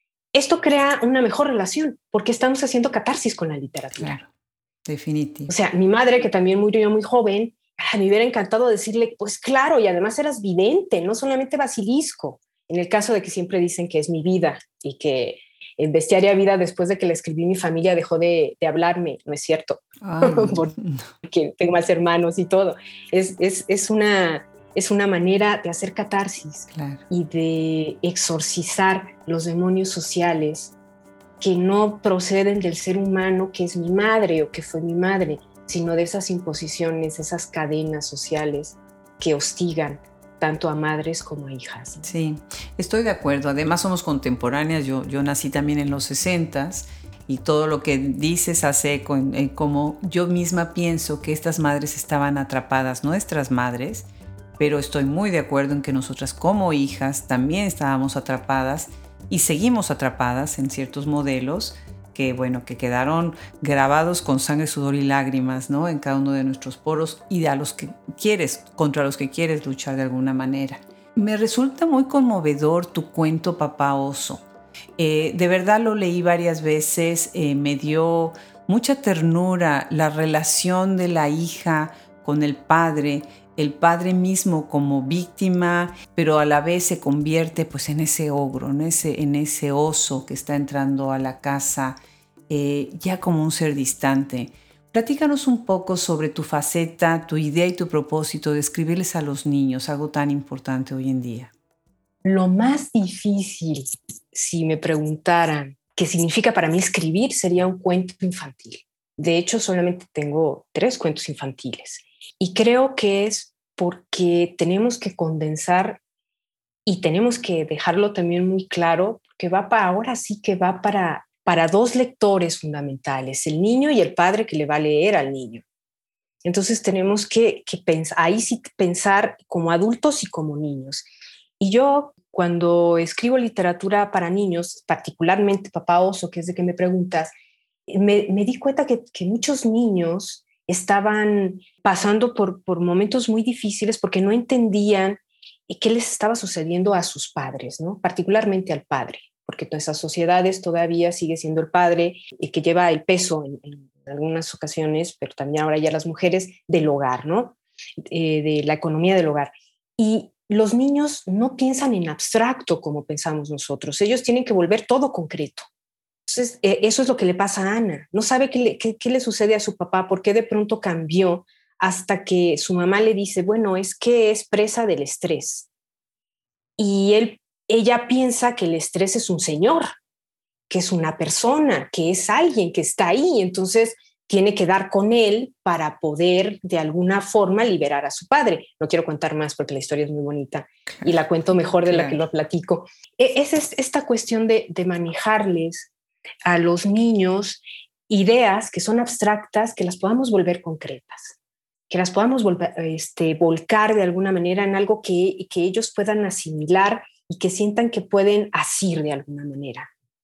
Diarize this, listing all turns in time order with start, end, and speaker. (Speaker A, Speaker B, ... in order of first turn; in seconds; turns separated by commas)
Speaker A: 0.3-4.1, Speaker B: 4.0-4.3, Speaker B: 4.9-5.5, Speaker A: 5.5-30.7, Speaker B: 20.0-21.1, Speaker B: 26.7-27.0, Speaker A: 31.4-42.1, Speaker B: 42.0-54.1, Speaker B: 54.6-74.5, Speaker B: 75.0-92.0, Speaker B: 92.5-101.5, Speaker A: 102.2-116.0, Speaker A: 116.9-125.6, Speaker A: 126.4-131.1, Speaker A: 131.6-137.3, Speaker A: 137.9-157.6, Speaker A: 158.1-165.7, Speaker A: 166.3-175.7, Speaker A: 176.8-179.9, Speaker A: 180.7-195.9, Speaker B: 191.9-192.2, Speaker A: 196.5-201.4, Speaker A: 201.9-209.9